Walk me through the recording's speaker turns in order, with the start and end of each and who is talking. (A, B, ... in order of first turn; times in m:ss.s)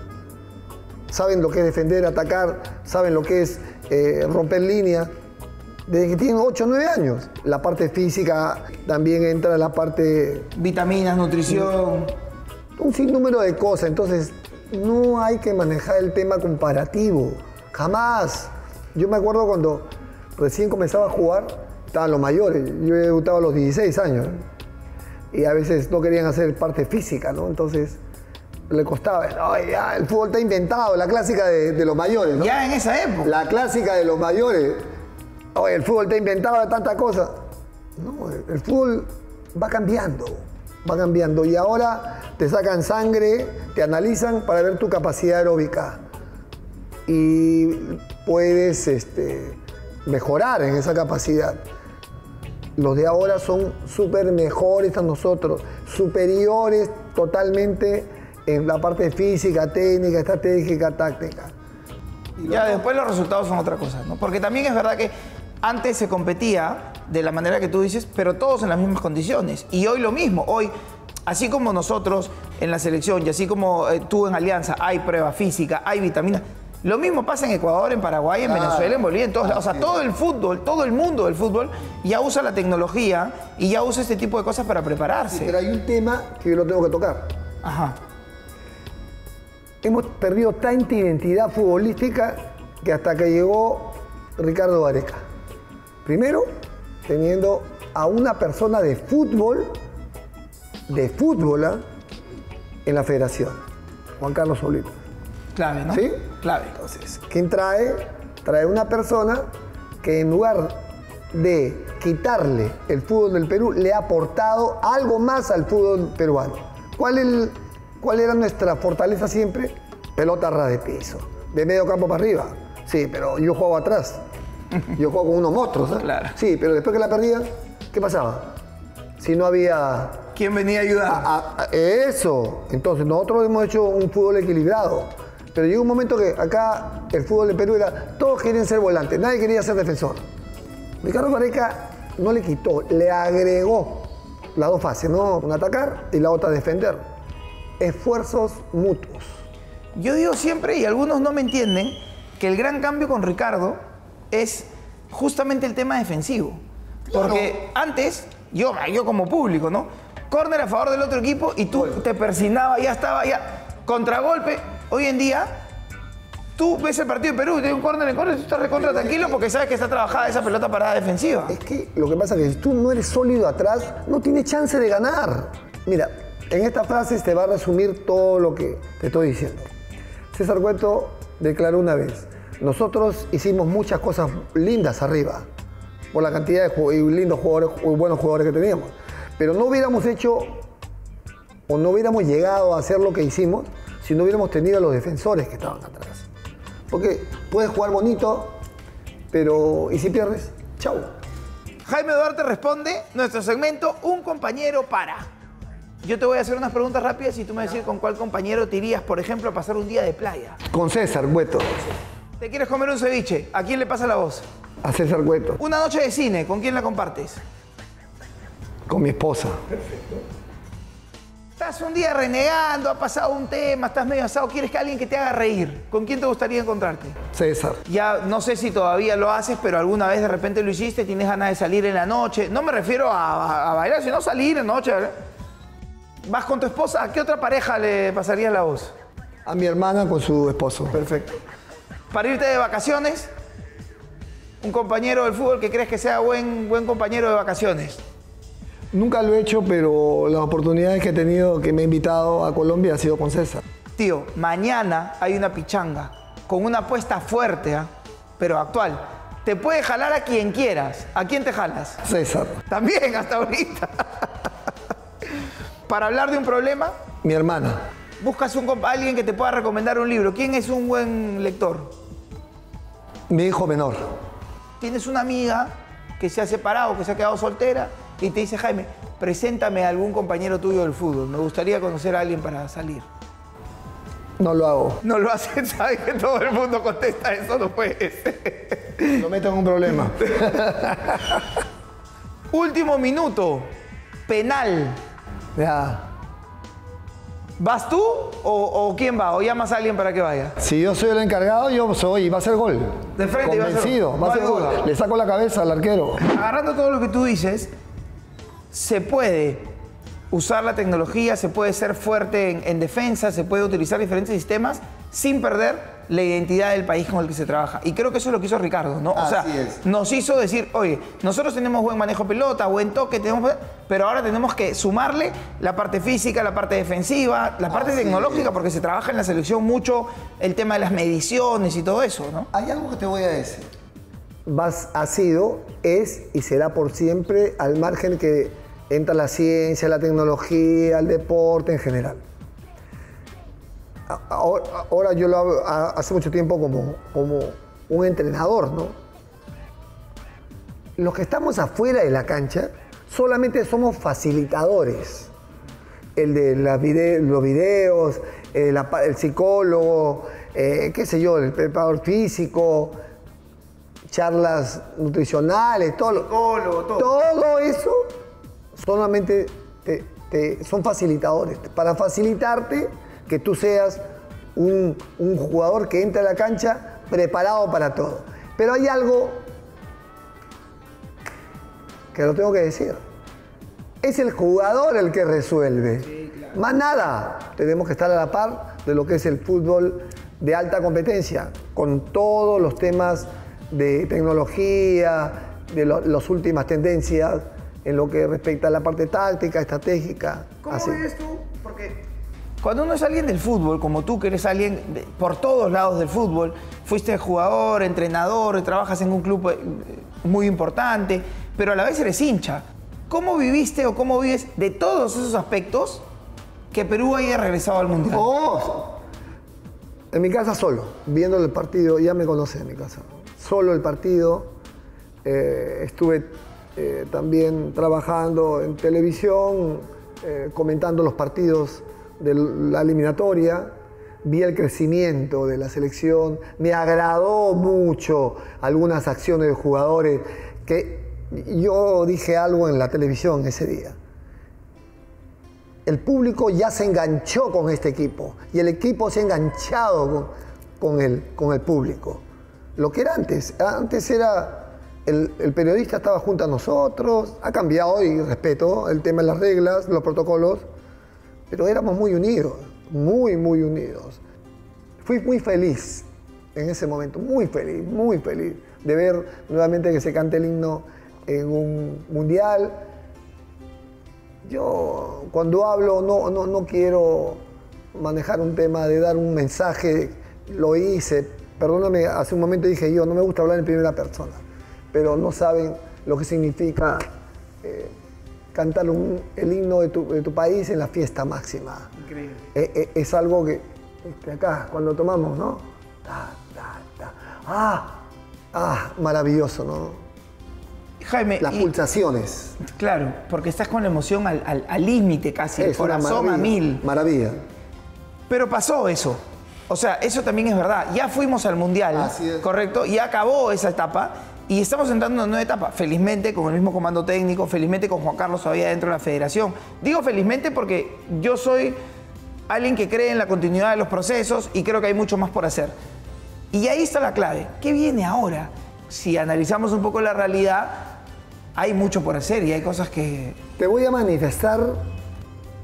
0:01.1-0:05.1 A
0:05.9-0:10.5 A
0:10.6-0:12.1 B
0:12.8-0:24.4 A
0:25.3-0:28.0 A
0:28.7-0:32.6 A
0:32.4-0:33.3 B
0:33.2-0:34.8 A
0:35.6-0:37.4 A
0:38.0-0:46.0 A
0:47.1-0:51.6 A
0:52.8-1:01.5 A
1:02.4-1:02.8 A
1:02.4-1:10.7 B
1:11.3-1:25.6 B
1:18.4-1:20.0 A
1:25.3-1:27.3 A
1:27.6-1:28.0 B
1:29.8-1:35.2 A
1:36.0-1:36.5 A
1:37.1-1:39.8 A
1:40.9-1:41.8 A
1:42.9-1:43.6 A
1:44.2-1:44.9 A
1:45.6-1:46.8 B
1:45.9-1:46.2 A
1:46.8-1:49.4 A
1:50.0-1:50.8 A
1:51.3-2:04.2 A
2:05.0-2:08.5 A
2:06.0-2:06.4 B
2:09.2-2:10.2 A
2:10.4-2:11.3 B
2:11.1-2:20.2 A
2:21.0-2:27.0 A
2:27.8-2:29.4 A
2:30.0-2:33.8 B
2:34.3-2:45.5 B
2:37.1-2:37.5 A
2:46.6-2:51.6 B
2:48.7-2:49.4 A
2:51.5-2:59.7 A
3:00.3-3:05.5 A
3:06.1-3:10.6 A
3:11.7-3:16.3 A
3:16.9-3:18.6 A
3:19.3-3:21.1 A
3:21.8-3:25.3 B
3:26.0-3:30.6 B
3:30.7-3:31.9 A
3:32.4-3:34.4 B
3:34.8-3:35.6 A
3:35.6-3:37.4 B
3:38.9-3:39.8 A
3:41.6-3:47.2 B
3:47.3-3:47.8 A
3:47.9-3:55.1 B
3:56.3-3:58.9 B
3:59.5-4:01.1 A
4:01.0-4:01.4 B
4:02.1-4:03.3 B
4:04.6-4:08.0 B
4:08.9-4:13.6 A
4:14.0-4:22.0 B
4:22.0-4:22.6 A
4:22.7-4:24.3 B
4:25.9-4:26.9 B
4:27.2-4:27.8 A
4:28.2-4:32.0 B
4:33.3-4:34.0 A
4:34.8-4:43.1 B
4:44.4-4:45.0 A
4:45.0-4:49.2 B
4:49.2-4:51.5 A
4:52.5-4:53.7 B
4:54.3-4:55.0 B
4:55.6-4:56.1 A
4:57.6-5:00.6 B
5:00.6-5:06.2 A
5:03.2-5:04.8 B
5:06.2-5:07.7 B
5:08.7-5:09.7 B
5:10.3-5:32.5 B
5:19.1-5:19.8 A
5:27.7-5:28.5 A
5:32.5-5:33.7 A
5:34.5-5:42.2 A
5:44.1-5:49.0 A
5:51.0-5:55.3 A
5:56.2-6:03.0 A
6:04.1-6:06.3 A
6:06.1-6:07.1 B
6:07.0-6:08.0 A
6:08.8-6:14.0 A
6:14.6-6:19.4 A
6:22.1-6:23.0 A
6:24.0-6:41.0 A
6:26.1-6:26.6 B
6:40.6-6:42.0 B
6:42.6-6:56.0 B
6:56.7-6:58.3 B
6:58.0-6:59.0 A
7:00.1-7:04.5 A
7:05.2-7:13.7 A
7:14.2-7:24.0 A
7:25.9-7:32.2 A
7:32.8-7:40.6 A
7:41.5-7:44.2 A
7:45.0-7:52.8 A
7:54.4-7:57.4 A
7:57.9-8:07.0 A
8:07.6-8:07.9 A
8:08.5-8:11.9 A
8:12.1-8:12.4 B
8:12.5-8:18.0 A
8:18.5-8:20.0 A
8:21.0-8:21.7 B
8:21.4-8:22.6 A
8:22.6-8:26.8 B
8:25.6-8:27.4 A
8:28.3-8:41.8 B
8:31.9-8:32.5 A
8:42.5-8:45.7 B
8:46.5-8:50.9 B
8:51.6-8:53.4 B
8:53.6-8:54.8 A